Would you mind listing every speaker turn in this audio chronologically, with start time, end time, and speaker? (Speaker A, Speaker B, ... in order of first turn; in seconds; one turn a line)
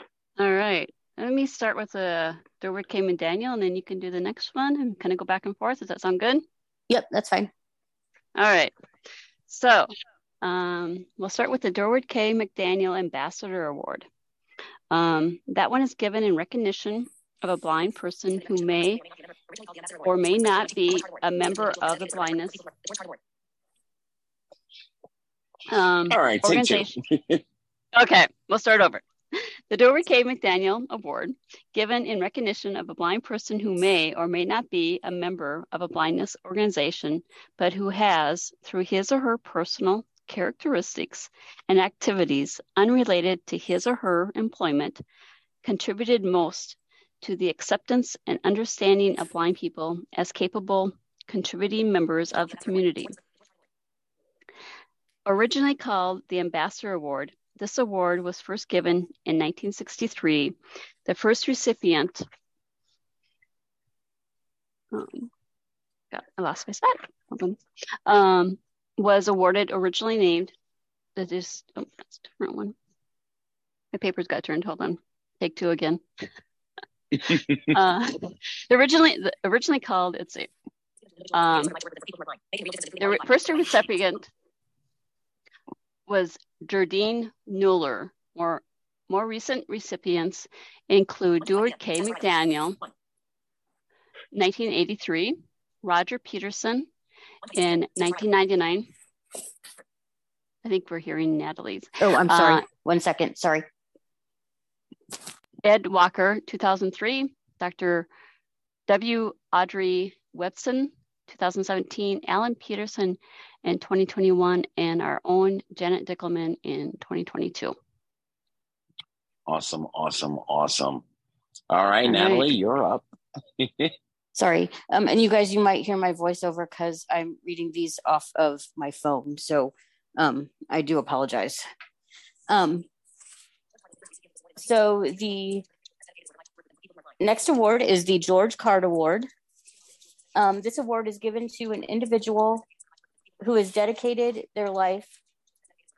Speaker A: 0.4-6.4
Speaker B: 6.9-7.5
Speaker A: 8.3-8.7
Speaker A: 9.5-14.0
Speaker A: 14.9-19.1
Speaker A: 20.0-22.7
Speaker A: 25.7-26.9
Speaker C: 26.1-27.4
Speaker A: 27.9-45.0
Speaker A: 45.6-53.1
Speaker A: 55.2-62.2
Speaker A: 64.9-65.3
Speaker A: 66.1-70.5
Speaker A: 71.2-72.7
Speaker A: 73.9-76.0
Speaker A: 77.6-80.5
Speaker A: 81.3-81.8
Speaker A: 83.0-84.3
Speaker A: 86.1-92.8
Speaker A: 94.3-96.9
Speaker A: 97.5-98.9
Speaker A: 100.6-102.6
Speaker B: 102.0-103.7
Speaker A: 105.6-108.1
Speaker A: 108.9-117.7
Speaker C: 119.5-121.0
Speaker C: 121.7-123.0
Speaker A: 122.0-122.5
Speaker C: 123.6-123.9
Speaker B: 124.3-131.6
Speaker B: 132.5-132.8
Speaker B: 134.6-135.6
Speaker B: 137.2-139.3
Speaker B: 140.3-142.6
Speaker B: 143.4-145.2